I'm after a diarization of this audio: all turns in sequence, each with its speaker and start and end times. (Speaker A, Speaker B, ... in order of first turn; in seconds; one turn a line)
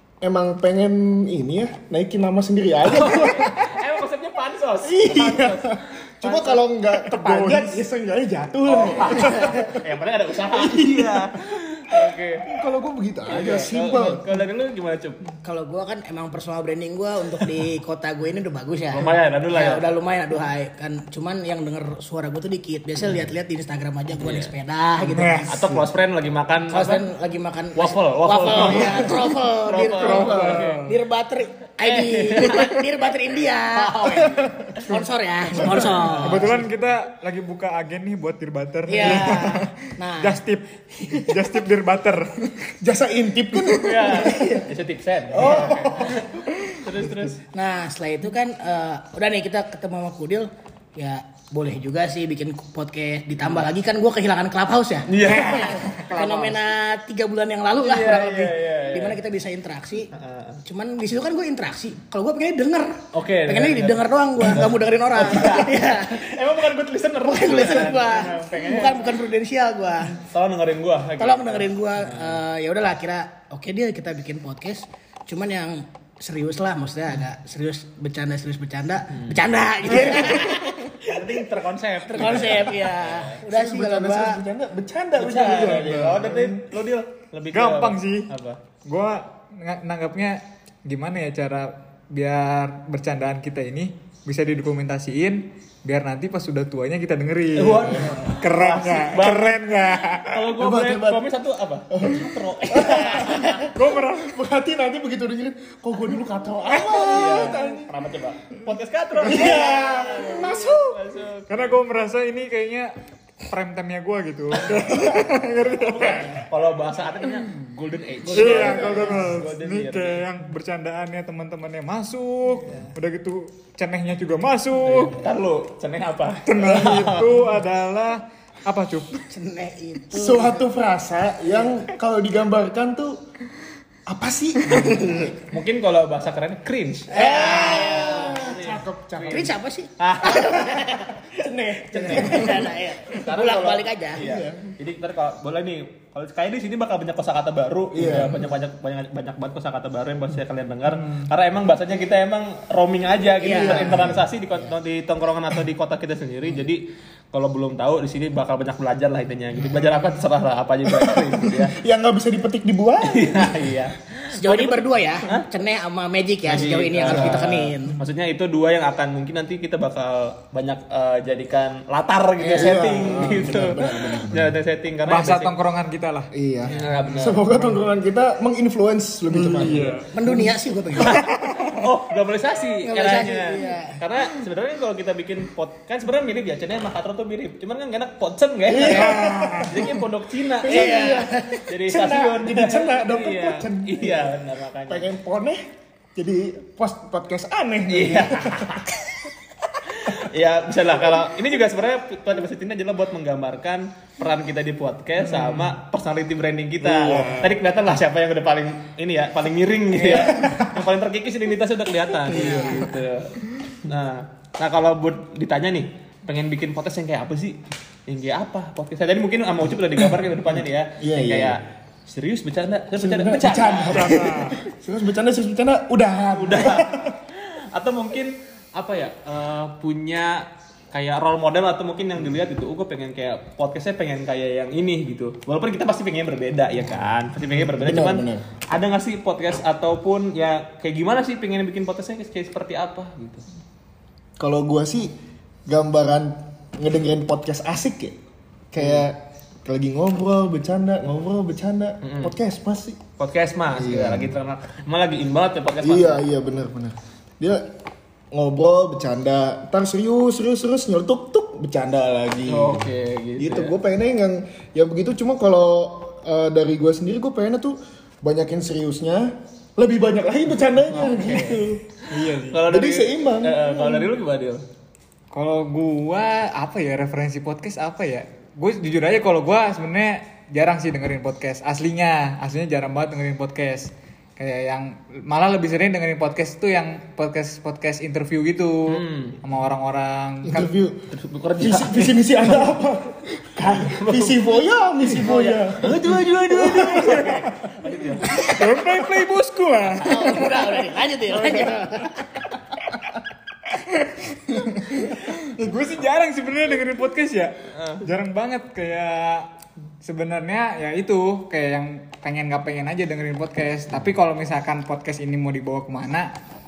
Speaker A: 0.2-3.7
Speaker B: 2.9-6.6
Speaker A: 4.8-9.7
Speaker C: 7.0-7.8
Speaker B: 8.7-12.4
Speaker D: 9.3-9.6
Speaker A: 10.5-14.2
Speaker B: 13.3-15.2
Speaker D: 15.4-25.6
Speaker B: 18.9-19.9
Speaker B: 24.2-24.5
Speaker C: 25.0-25.8
Speaker B: 25.5-27.1
Speaker D: 26.7-36.6
Speaker B: 27.8-30.8
Speaker A: 30.0-30.7
Speaker C: 30.0-31.0
Speaker B: 31.8-32.8
Speaker B: 33.8-35.0
Speaker A: 34.1-34.7
Speaker A: 35.6-36.4
Speaker C: 35.7-42.7
Speaker B: 35.7-36.6
Speaker D: 38.9-40.4
Speaker D: 41.0-41.5
Speaker A: 42.8-44.3
Speaker B: 43.8-47.4
Speaker D: 44.1-44.7
Speaker A: 45.3-46.3
Speaker D: 47.5-60.1
Speaker B: 55.1-56.5
Speaker C: 56.1-56.5
Speaker B: 57.8-59.2
Speaker B: 60.1-60.6
Speaker D: 60.7-66.4
Speaker B: 63.1-69.2
Speaker D: 67.2-70.2
Speaker B: 70.2-72.4
Speaker D: 71.2-81.4
Speaker B: 79.1-83.4
Speaker D: 82.1-84.4
Speaker A: 83.4-86.7
Speaker B: 85.2-88.6
Speaker C: 85.7-86.2
Speaker C: 87.5-88.3
Speaker C: 88.8-100.4
Speaker B: 97.6-99.7
Speaker B: 100.2-103.6
Speaker A: 100.6-101.2
Speaker A: 101.9-107.9
Speaker C: 103.7-104.4
Speaker B: 106.9-111.8
Speaker A: 109.2-111.0
Speaker C: 111.5-112.9
Speaker C: 113.5-116.4
Speaker B: 114.5-115.1
Speaker B: 115.7-120.2
Speaker D: 118.3-119.3
Speaker C: 118.3-125.2
Speaker D: 122.6-122.9
Speaker B: 124.8-127.3
Speaker C: 126.5-129.2
Speaker D: 129.2-130.7
Speaker A: 130.1-133.2
Speaker A: 134.1-135.3
Speaker B: 134.8-141.0
Speaker D: 137.1-138.5
Speaker A: 137.2-139.6
Speaker D: 139.3-141.4
Speaker A: 141.3-142.7
Speaker B: 141.9-161.8
Speaker D: 141.9-144.2
Speaker A: 144.2-144.7
Speaker A: 147.9-148.4
Speaker D: 153.4-154.2
Speaker A: 153.5-154.2
Speaker A: 160.9-163.6
Speaker B: 163.0-165.5
Speaker D: 164.3-168.0
Speaker B: 166.5-175.5
Speaker A: 167.1-167.5
Speaker D: 172.4-172.9
Speaker A: 172.6-174.6
Speaker C: 175.1-176.3
Speaker A: 176.3-180.6
Speaker B: 176.7-177.4
Speaker C: 177.4-177.8
Speaker C: 179.3-180.1
Speaker D: 180.1-181.2
Speaker B: 181.0-195.1
Speaker C: 181.0-181.8
Speaker D: 182.8-184.0
Speaker A: 188.7-189.9
Speaker C: 188.8-189.8
Speaker A: 190.6-195.6
Speaker D: 190.6-191.6
Speaker A: 196.2-198.8
Speaker B: 197.9-198.9
Speaker B: 199.9-224.2
Speaker C: 205.2-205.7
Speaker C: 206.9-207.5
Speaker A: 210.1-210.6
Speaker D: 212.3-213.0
Speaker A: 212.4-212.8
Speaker A: 221.0-221.6
Speaker A: 223.0-227.1
Speaker C: 223.9-224.6
Speaker B: 226.3-243.4
Speaker A: 237.7-238.4
Speaker A: 244.4-248.2
Speaker A: 248.7-253.0
Speaker B: 248.8-249.1
Speaker B: 252.0-252.3
Speaker B: 253.2-256.2
Speaker A: 253.8-254.3
Speaker A: 255.8-257.7
Speaker A: 258.3-271.8
Speaker B: 262.5-263.7
Speaker B: 270.9-274.6
Speaker C: 272.1-272.6
Speaker A: 272.7-274.1
Speaker C: 275.3-290.8
Speaker B: 288.9-289.4
Speaker A: 290.4-291.1
Speaker B: 291.1-292.6
Speaker A: 291.6-297.4
Speaker B: 293.6-294.4
Speaker B: 295.1-298.5
Speaker D: 298.3-298.6
Speaker C: 298.5-300.8
Speaker D: 300.0-302.3
Speaker C: 303.8-309.5
Speaker B: 307.7-308.0
Speaker C: 310.0-316.3